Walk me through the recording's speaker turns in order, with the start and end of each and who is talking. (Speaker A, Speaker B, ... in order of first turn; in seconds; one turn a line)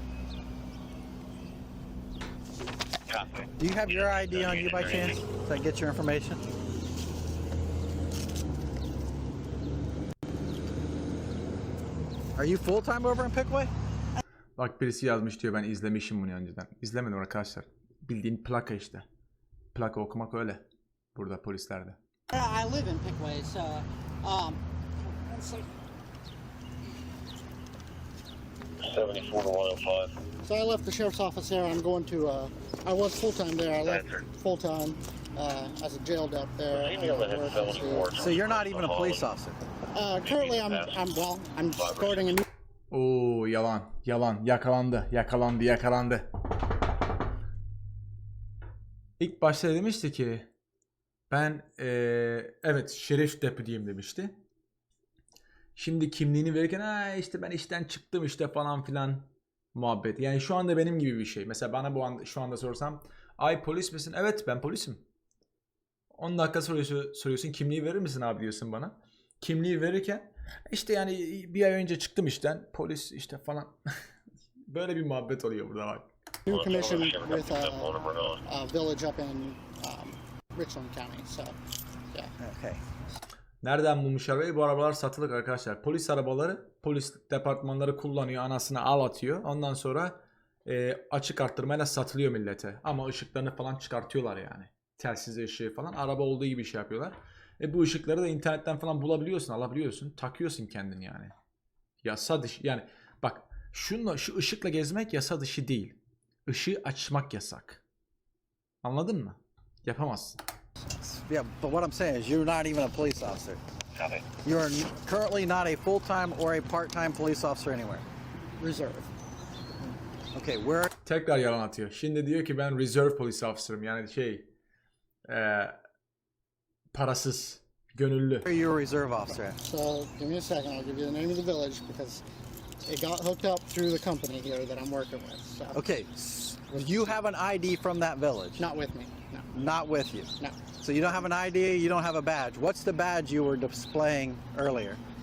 Speaker A: 3.1-5.2
Speaker B: 3.6-6.4
Speaker B: 12.3-13.7
Speaker C: 14.6-19.1
Speaker C: 19.7-22.0
Speaker D: 22.3-25.7
Speaker A: 28.8-30.1
Speaker D: 30.4-38.1
Speaker A: 33.7-34.2
Speaker A: 36.7-39.3
Speaker B: 38.1-39.6
Speaker D: 39.9-42.5
Speaker A: 40.2-41.1
Speaker A: 41.7-42.4
Speaker C: 42.9-46.3
Speaker C: 49.2-50.5
Speaker C: 51.3-54.4
Speaker C: 55.8-65.0
Speaker C: 66.1-74.1
Speaker C: 74.7-76.1
Speaker D: 76.5-77.9
Speaker A: 76.5-78.4
Speaker D: 78.5-81.5
Speaker B: 82.4-82.8
Speaker C: 83.6-101.3
Speaker C: 102.0-106.0
Speaker C: 106.5-107.8
Speaker C: 108.8-110.4
Speaker B: 111.0-113.6
Speaker A: 113.9-114.2
Speaker B: 114.4-118.0
Speaker D: 118.5-119.1
Speaker B: 120.3-120.9
Speaker C: 121.0-124.5
Speaker C: 125.3-125.8
Speaker C: 126.9-128.5
Speaker B: 128.4-129.6
Speaker D: 129.6-132.2
Speaker D: 132.8-135.8
Speaker B: 135.7-138.6
Speaker D: 138.6-139.5
Speaker B: 139.5-145.0
Speaker D: 140.4-140.7